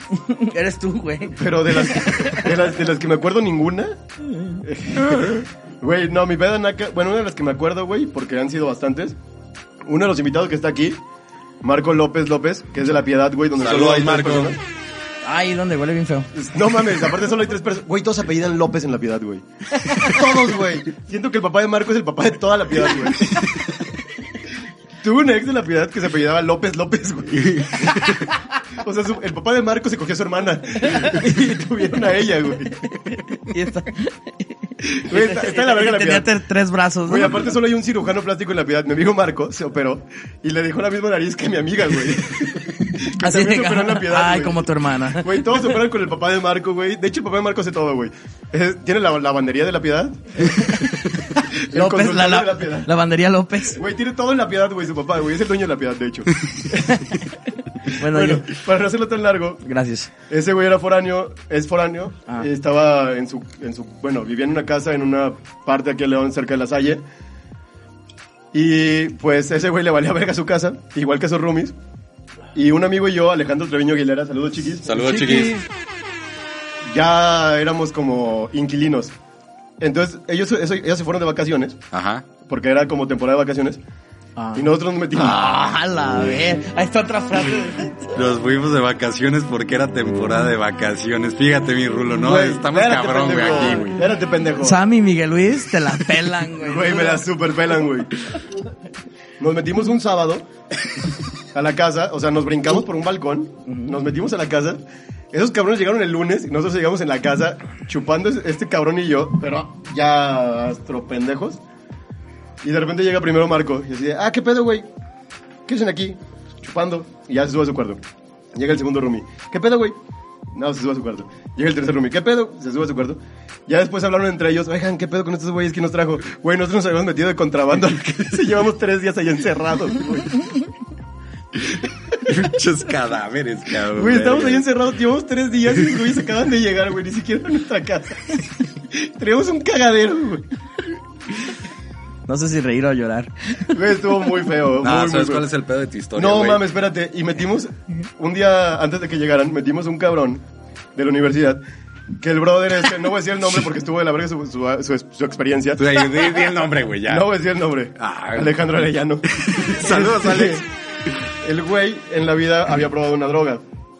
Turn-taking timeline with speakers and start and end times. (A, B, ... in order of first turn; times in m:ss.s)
0:00.2-0:02.5 A
0:01.2-0:04.0 B
0:04.4-0:04.6 A
0:04.6-0:09.2 B
0:09.8-0:11.0 B
0:11.6-0:14.6 B
0:13.6-0:14.6 C
0:15.2-0:16.3 A
0:16.3-0:23.4 B
0:19.8-0:20.5 A
0:25.0-0:28.1 B
0:27.4-0:28.2 C
0:28.7-0:32.8 B
0:30.9-0:31.2 A
0:32.8-0:37.5 A
0:35.0-0:36.3 B
0:37.0-0:50.8 B
0:43.2-0:45.6 A
0:50.5-0:53.8 A
0:51.6-0:52.9 B
0:53.7-0:57.1 B
0:56.8-0:58.5 A
0:58.0-0:59.6 B
0:59.6-1:00.1 A
1:00.3-1:07.0 B
1:08.5-1:11.7 B
1:12.5-1:14.9 B
1:14.8-1:15.6 C
1:14.9-1:15.6 A
1:16.8-1:19.1 B
1:19.8-1:21.8 B
1:21.9-1:22.2 C
1:22.4-1:23.8 B
1:24.4-1:28.2 A
1:24.5-1:25.4 B
1:25.2-1:26.3 C
1:28.1-1:34.0 C
1:32.2-1:34.8 B
1:34.6-1:37.3 A
1:36.6-1:38.1 B
1:39.4-1:40.5 B
1:41.5-1:44.8 B
1:45.3-1:51.6 B
1:52.6-1:54.9 B
1:55.7-1:58.0 B
1:58.5-2:00.0 B
2:00.5-2:10.4 B
2:11.6-2:14.7 C
2:13.9-2:20.5 B
2:22.3-2:23.7 A
2:23.7-2:25.4 B
2:24.8-2:26.6 C
2:26.1-2:30.4 B
2:30.9-2:31.6 B
2:32.2-2:36.4 B
2:35.8-2:37.3 C
2:37.0-2:40.6 B
2:38.0-2:38.7 C
2:39.3-2:40.6 C
2:41.4-2:43.6 B